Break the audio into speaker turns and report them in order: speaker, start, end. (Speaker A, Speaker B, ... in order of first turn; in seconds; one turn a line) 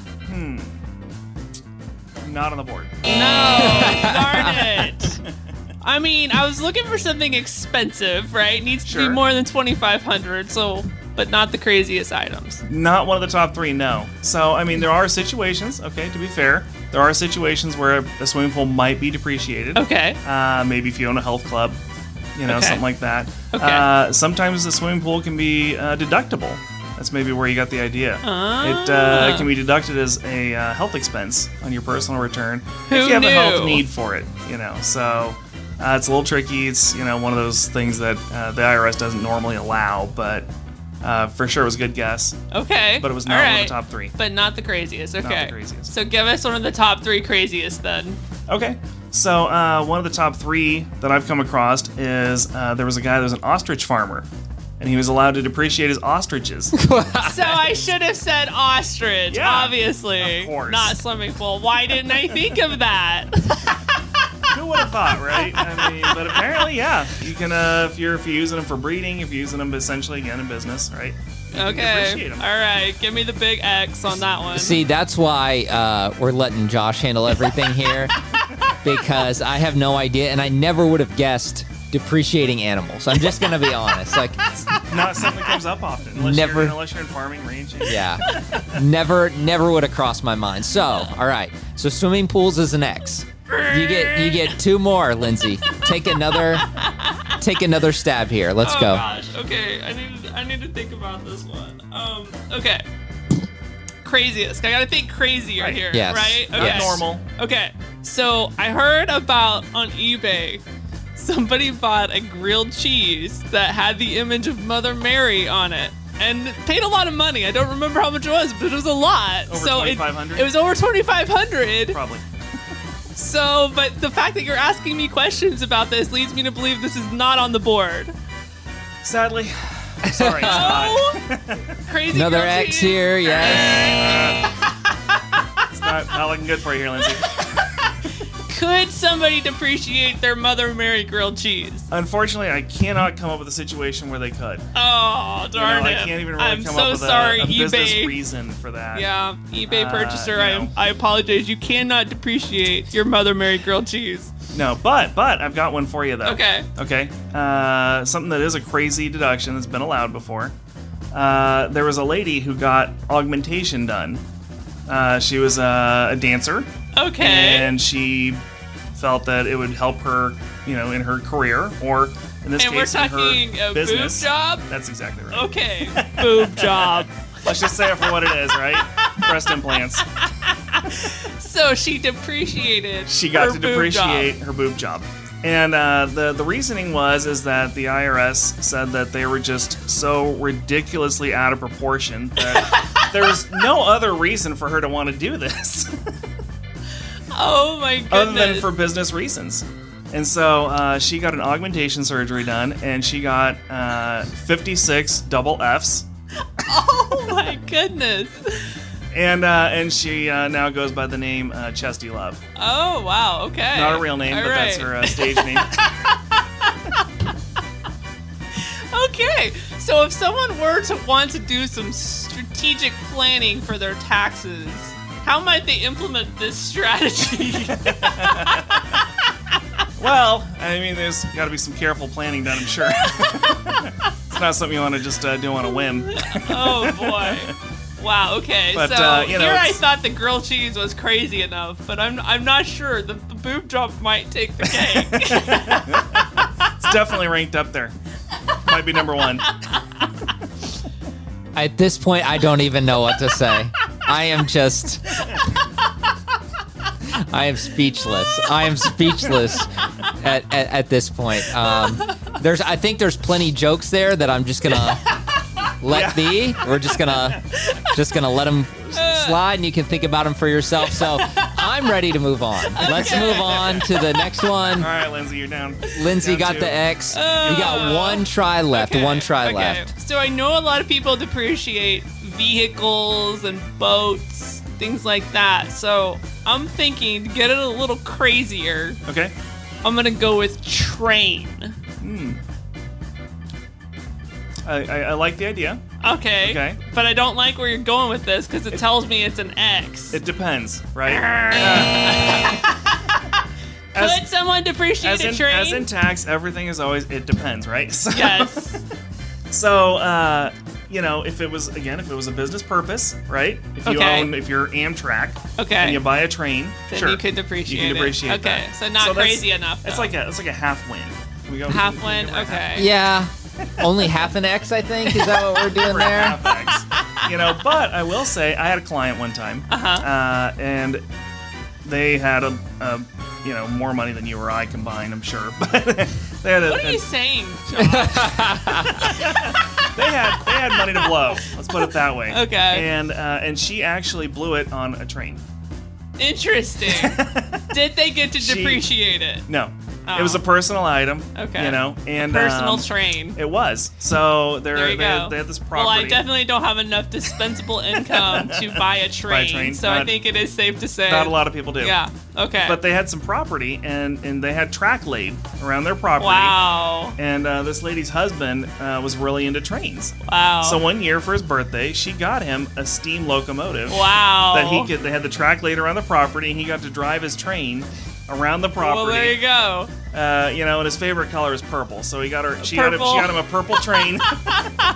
Speaker A: 0.3-0.8
Speaker A: 2.2-2.9
Speaker B: 3.0-5.2
Speaker C: 3.6-4.5
Speaker A: 4.4-5.3
Speaker B: 5.8-12.6
Speaker A: 8.8-9.2
Speaker A: 12.7-21.8
Speaker B: 19.7-20.2
Speaker A: 22.3-40.5
Speaker B: 22.5-22.8
Speaker B: 23.5-23.9
Speaker B: 28.2-29.5
Speaker B: 32.9-33.8
Speaker A: 41.0-42.4
Speaker B: 42.5-48.2
Speaker A: 43.0-44.1
Speaker A: 45.2-45.9
Speaker A: 48.5-54.3
Speaker A: 54.8-56.7
Speaker C: 56.7-57.7
Speaker B: 57.2-63.7
Speaker A: 59.3-61.0
Speaker A: 64.5-72.5
Speaker B: 65.5-66.2
Speaker B: 71.5-74.8
Speaker C: 74.5-78.2
Speaker C: 78.8-84.6
Speaker A: 84.8-88.7
Speaker C: 86.1-86.8
Speaker C: 87.9-96.7
Speaker B: 93.5-94.5
Speaker C: 97.4-99.0
Speaker B: 98.6-102.8
Speaker B: 104.0-110.6
Speaker A: 105.5-105.8
Speaker C: 105.9-107.0
Speaker A: 106.5-107.2
Speaker B: 111.2-122.0
Speaker A: 119.5-120.5
Speaker A: 121.9-122.2
Speaker B: 123.1-128.1
Speaker A: 129.0-131.8
Speaker C: 130.0-130.9
Speaker B: 130.4-131.2
Speaker B: 131.9-134.3
Speaker C: 132.1-134.1
Speaker A: 135.7-137.5
Speaker B: 138.4-141.8
Speaker A: 141.9-144.6
Speaker B: 144.7-148.2
Speaker A: 145.5-149.1
Speaker B: 148.9-154.3
Speaker A: 149.7-150.7
Speaker A: 154.5-160.5
Speaker B: 156.2-156.7
Speaker A: 161.1-164.2
Speaker A: 164.9-168.4
Speaker B: 166.9-167.7
Speaker A: 168.9-180.0
Speaker B: 172.6-174.7
Speaker B: 175.3-177.1
Speaker B: 180.4-184.3
Speaker A: 183.1-196.0
Speaker B: 192.4-193.3
Speaker B: 197.3-198.7
Speaker A: 198.1-206.0
Speaker B: 206.6-208.8
Speaker A: 209.1-212.4
Speaker B: 212.6-216.1
Speaker A: 213.7-215.8
Speaker B: 218.5-229.0
Speaker A: 227.8-228.9
Speaker A: 230.0-237.5
Speaker B: 233.0-233.4
Speaker B: 235.8-246.0
Speaker A: 238.7-239.8
Speaker A: 244.7-247.9
Speaker A: 248.6-249.5
Speaker C: 251.5-255.4
Speaker C: 257.3-265.1
Speaker C: 265.8-274.9
Speaker A: 265.9-266.7
Speaker B: 267.5-267.9
Speaker B: 268.9-269.4
Speaker B: 270.8-271.2
Speaker B: 272.7-274.0
Speaker A: 272.9-273.8
Speaker A: 274.8-278.1
Speaker C: 275.9-279.9
Speaker B: 277.1-289.0
Speaker A: 289.1-289.3
Speaker B: 289.8-291.7
Speaker A: 292.0-292.4
Speaker A: 294.6-295.8
Speaker B: 296.0-300.2
Speaker A: 296.4-296.8
Speaker A: 300.1-302.6
Speaker B: 301.0-302.7
Speaker A: 303.9-304.2
Speaker B: 303.9-305.9
Speaker A: 305.0-308.8
Speaker B: 308.1-308.8
Speaker A: 309.5-322.9
Speaker B: 313.8-314.3
Speaker B: 315.6-316.1
Speaker B: 316.9-320.1
Speaker B: 321.7-322.9
Speaker C: 322.7-326.4
Speaker A: 323.8-324.2
Speaker B: 325.1-325.6
Speaker A: 325.7-331.0
Speaker B: 326.5-327.3
Speaker B: 329.7-330.1
Speaker A: 331.8-337.0
Speaker B: 336.6-339.3
Speaker C: 337.8-338.9
Speaker A: 339.0-345.4
Speaker B: 340.5-342.9
Speaker B: 346.2-349.4
Speaker A: 346.8-347.8
Speaker A: 348.4-348.9
Speaker A: 349.5-356.2
Speaker B: 350.1-350.4
Speaker B: 351.3-353.4
Speaker B: 354.7-362.8
Speaker A: 357.9-360.2
Speaker A: 361.1-362.0
Speaker A: 362.6-366.6
Speaker B: 366.2-367.1
Speaker A: 367.1-379.4
Speaker B: 370.3-370.8
Speaker B: 373.9-374.9
Speaker B: 378.8-379.9
Speaker A: 380.1-384.7
Speaker B: 382.6-383.4